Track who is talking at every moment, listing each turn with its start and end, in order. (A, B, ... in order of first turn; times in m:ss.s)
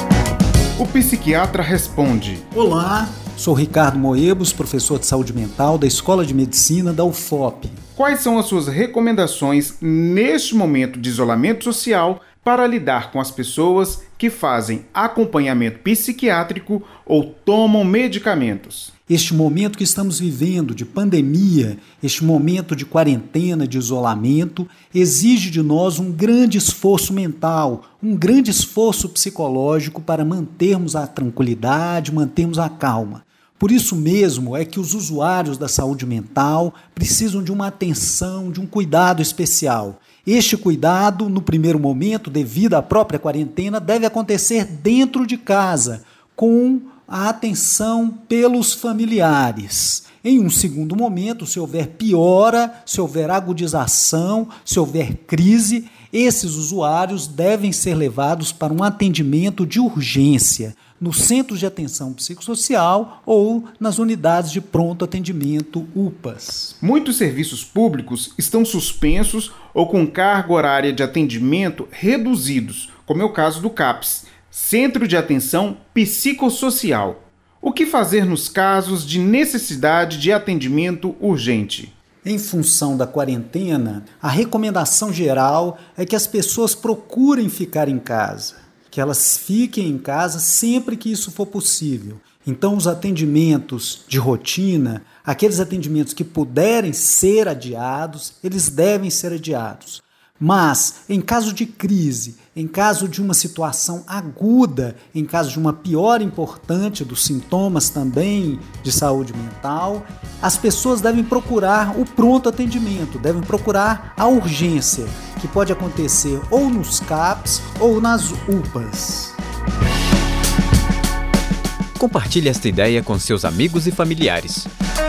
0:00.8-0:02.4 A
0:02.5-0:07.8 B
0:08.0-0:18.9 A
0:19.1-1:06.8 B
1:06.8-1:21.9 A
1:22.2-1:59.4 B
2:02.0-2:04.7 C